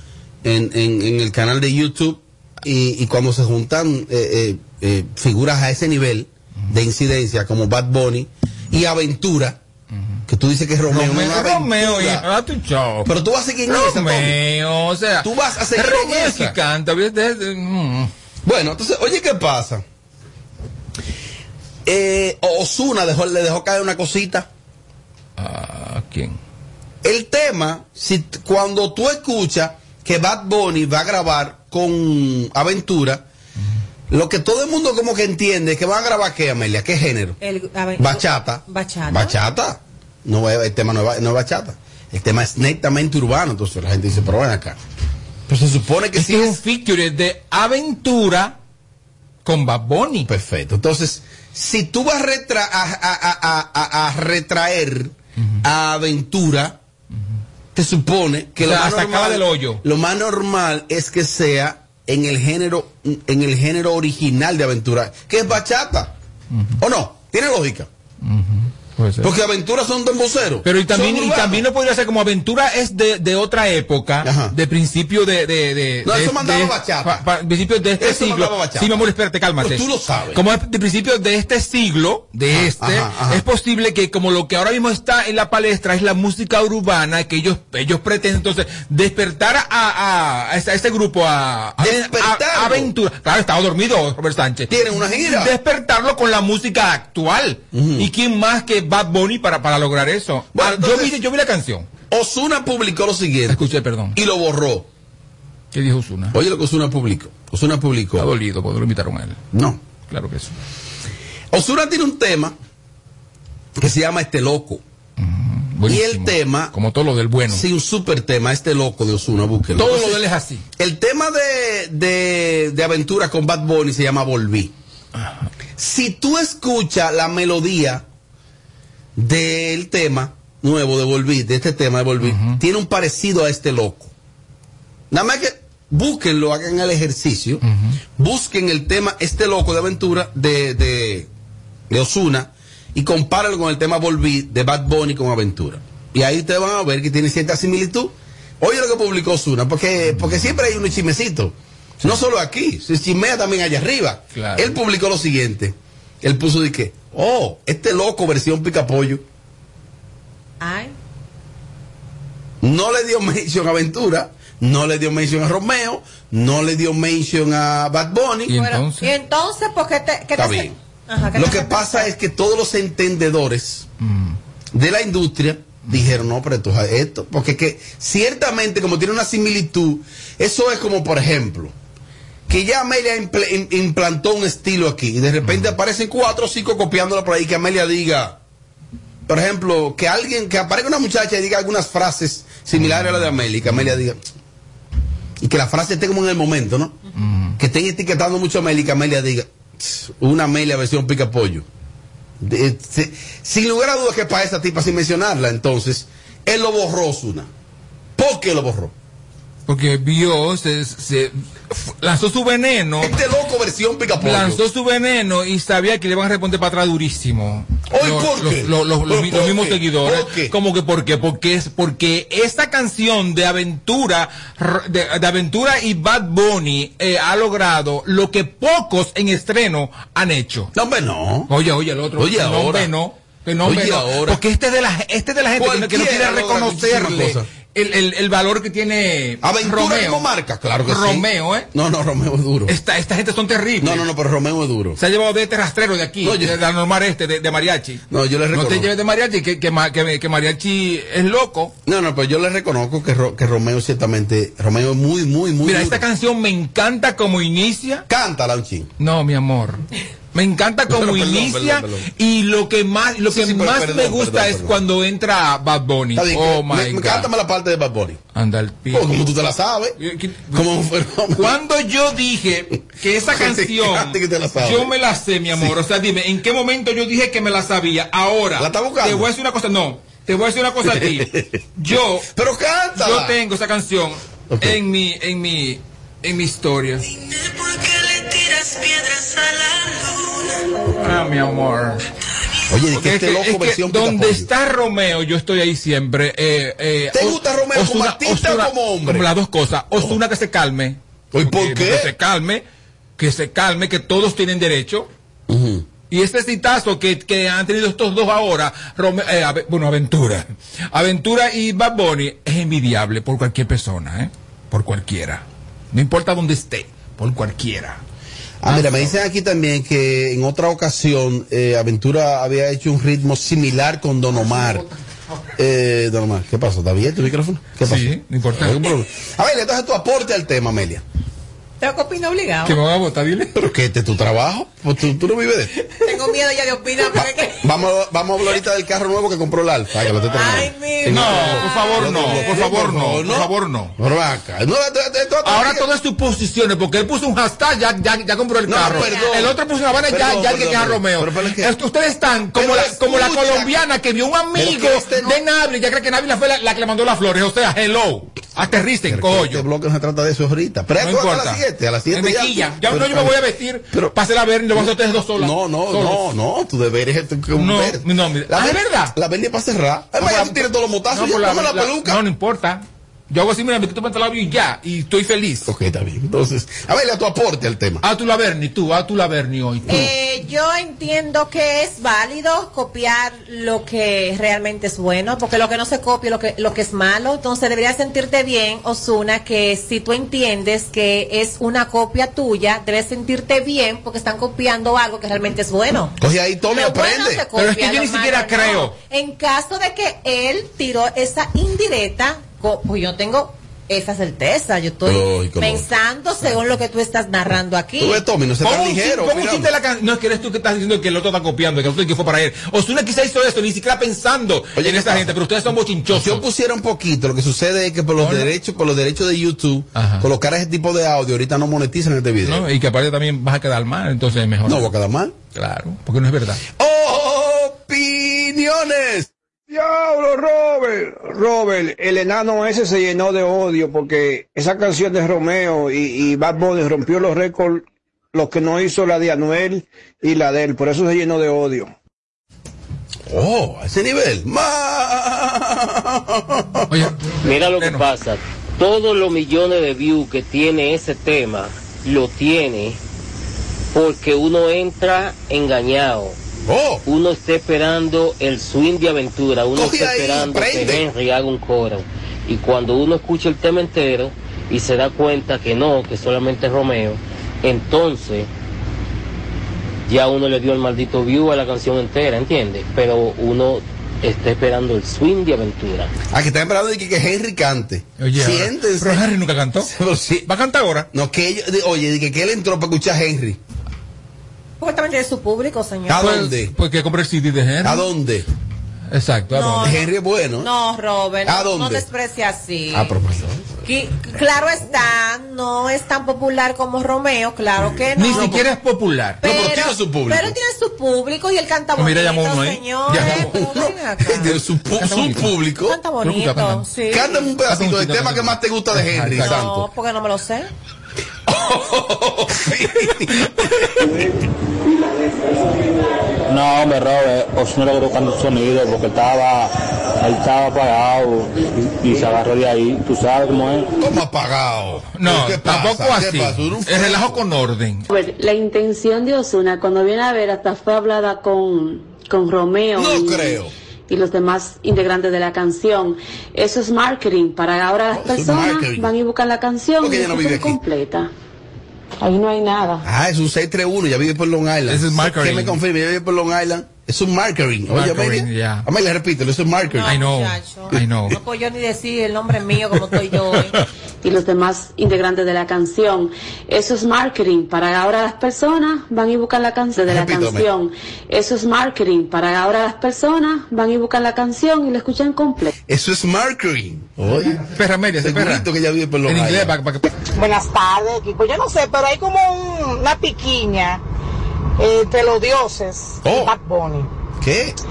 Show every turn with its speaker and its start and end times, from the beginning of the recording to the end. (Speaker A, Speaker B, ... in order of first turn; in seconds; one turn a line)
Speaker A: 0.4-9.6
Speaker A: 10.3-12.3
Speaker B: 10.9-13.1
Speaker A: 13.1-14.4
Speaker B: 13.7-18.1
Speaker A: 15.2-16.6
Speaker A: 18.4-19.8
Speaker A: 21.9-24.5
Speaker B: 25.4-26.4
Speaker A: 27.0-33.2
Speaker A: 34.1-37.4
Speaker C: 37.4-39.4
Speaker A: 38.0-44.8
Speaker A: 45.5-46.6
Speaker B: 46.2-48.6
Speaker B: 49.5-50.3
Speaker A: 50.3-56.8
Speaker A: 57.8-66.1
Speaker B: 58.6-59.8
Speaker A: 66.8-67.9
Speaker B: 68.2-69.3
Speaker A: 69.2-71.7
Speaker B: 70.6-101.9
Speaker A: 74.2-74.5
Speaker A: 76.0-77.2
Speaker A: 78.0-79.1
Speaker A: 79.6-80.4
Speaker A: 82.5-83.4
Speaker A: 91.8-92.9
Speaker A: 94.7-95.5
Speaker A: 97.7-98.1
Speaker A: 100.5-101.2
Speaker A: 102.1-103.6
Speaker B: 103.5-104.2
Speaker A: 104.2-104.9
Speaker B: 105.7-106.4
Speaker A: 106.3-108.3
Speaker B: 108.2-109.4
Speaker A: 109.5-109.8
Speaker B: 110.1-110.6
Speaker A: 111.5-112.6
Speaker A: 113.8-114.8
Speaker B: 115.2-117.6
Speaker A: 115.9-116.7
Speaker A: 117.5-120.2
Speaker B: 119.8-120.6
Speaker A: 120.8-124.7
Speaker A: 125.8-128.1
Speaker A: 129.2-134.1
Speaker B: 132.2-132.6
Speaker A: 135.1-137.6
Speaker B: 137.6-138.0
Speaker A: 138.2-141.3
Speaker A: 141.9-159.2
Speaker B: 154.3-154.8
Speaker C: 160.6-160.9
Speaker A: 162.6-168.6
Speaker B: 168.5-169.1
Speaker C: 168.6-172.1
Speaker A: 170.3-170.8
Speaker A: 171.3-173.9
Speaker B: 174.0-174.4
Speaker A: 174.7-181.7
Speaker B: 175.9-176.2
Speaker A: 182.5-188.4
Speaker B: 185.4-185.7
Speaker A: 189.3-194.2
Speaker B: 192.8-193.9
Speaker A: 195.4-197.0
Speaker B: 197.2-197.6
Speaker A: 197.6-201.7
Speaker A: 202.4-207.5
Speaker A: 208.2-208.9
Speaker B: 209.7-213.2
Speaker A: 213.0-214.6
Speaker B: 214.2-230.7
Speaker A: 217.9-220.5
Speaker A: 230.7-231.5
Speaker B: 231.5-240.2
Speaker A: 232.2-232.9
Speaker A: 233.6-234.4
Speaker A: 235.6-237.5
Speaker A: 239.4-242.7
Speaker B: 240.9-241.7
Speaker B: 242.7-244.1
Speaker A: 243.8-245.0
Speaker B: 245.0-251.7
Speaker A: 246.2-246.6
Speaker A: 248.1-248.9
Speaker A: 251.9-256.1
Speaker B: 255.6-258.1
Speaker A: 258.1-258.9
Speaker B: 259.0-259.8
Speaker B: 260.3-267.3
Speaker A: 260.9-262.1
Speaker A: 263.3-264.8
Speaker A: 266.1-268.2
Speaker B: 268.3-269.2
Speaker A: 268.9-270.0
Speaker B: 270.0-270.6
Speaker A: 270.5-271.6
Speaker B: 271.4-282.3
Speaker A: 273.3-274.9
Speaker A: 278.6-279.3
Speaker A: 280.8-281.6
Speaker A: 282.3-283.4
Speaker B: 283.0-287.1
Speaker A: 284.5-284.8
Speaker B: 291.0-292.0
Speaker A: 292.7-294.5
Speaker B: 292.9-302.6
Speaker A: 297.1-299.3
Speaker A: 301.3-302.1
Speaker B: 303.2-305.1
Speaker A: 305.5-305.9
Speaker B: 306.1-318.0
Speaker A: 318.6-324.9
Speaker B: 318.7-319.2
Speaker B: 324.5-324.8
Speaker A: 325.6-331.0
Speaker B: 327.8-328.8
Speaker C: 331.8-332.8
Speaker B: 332.6-333.5
Speaker A: 333.6-335.7
Speaker C: 336.0-337.6
Speaker A: 337.2-345.9
Speaker C: 340.3-342.6
Speaker B: 341.1-343.9
Speaker B: 345.4-359.6
Speaker A: 348.7-349.6
Speaker C: 348.8-349.4
Speaker A: 350.1-351.7
Speaker A: 352.6-353.8
Speaker A: 354.5-355.4
Speaker A: 359.1-363.4
Speaker B: 361.0-366.2
Speaker A: 364.7-372.2
Speaker B: 367.6-369.1
Speaker B: 370.2-375.7
Speaker A: 375.7-378.0
Speaker B: 378.0-380.1
Speaker C: 379.9-396.1
Speaker A: 396.2-397.5
Speaker C: 396.7-408.2
Speaker B: 397.6-398.9
Speaker A: 405.1-405.9
Speaker A: 408.0-409.7
Speaker B: 408.6-416.4
Speaker A: 414.8-415.4
Speaker A: 416.1-422.7
Speaker B: 418.2-418.5
Speaker B: 419.9-420.3
Speaker B: 422.4-424.9
Speaker A: 424.7-425.3
Speaker B: 425.6-426.6
Speaker A: 426.8-429.3
Speaker D: 429.7-441.9
Speaker A: 443.3-446.9
Speaker B: 446.9-448.0
Speaker E: 447.4-453.0
Speaker E: 453.9-456.4
Speaker A: 456.7-457.0
Speaker E: 457.1-468.5
Speaker A: 459.7-461.1
Speaker E: 470.1-476.1
Speaker A: 476.3-479.2
Speaker B: 478.2-479.9
Speaker A: 479.8-480.5
Speaker B: 480.5-481.1
Speaker A: 481.1-483.6
Speaker C: 484.8-486.4
Speaker A: 486.1-486.7
Speaker B: 486.2-488.1
Speaker A: 487.8-488.5
Speaker B: 489.1-489.9
Speaker C: 489.5-490.1
Speaker A: 489.8-490.7
Speaker C: 490.6-493.1
Speaker A: 491.4-492.1
Speaker A: 492.9-493.7
Speaker C: 493.8-498.6
Speaker A: 497.8-498.6
Speaker B: 498.2-499.4
Speaker A: 499.4-500.6
Speaker C: 499.4-504.6
Speaker B: 502.0-503.6
Speaker A: 503.1-506.0
Speaker B: 505.0-505.5
Speaker C: 505.8-507.5
Speaker B: 506.2-506.9
Speaker A: 507.1-509.9
Speaker B: 507.7-509.6
Speaker C: 509.4-510.7
Speaker A: 511.5-514.2
Speaker F: 516.5-523.9
Speaker A: 524.0-527.4
Speaker B: 525.1-528.1
Speaker G: 528.1-541.3
Speaker A: 533.0-533.7
Speaker A: 538.1-539.1
Speaker A: 540.0-540.8
Speaker G: 542.2-543.0
Speaker A: 543.0-550.2
Speaker B: 544.9-545.8
Speaker B: 547.9-548.9
Speaker C: 549.9-553.8
Speaker B: 550.1-551.4
Speaker G: 554.2-565.7
Speaker A: 560.1-560.7
Speaker A: 565.9-567.6
Speaker B: 567.6-568.7
Speaker A: 568.2-569.8
Speaker B: 569.3-570.1
Speaker H: 570.4-574.0
Speaker H: 574.8-577.1
Speaker A: 576.2-576.5
Speaker A: 577.4-577.8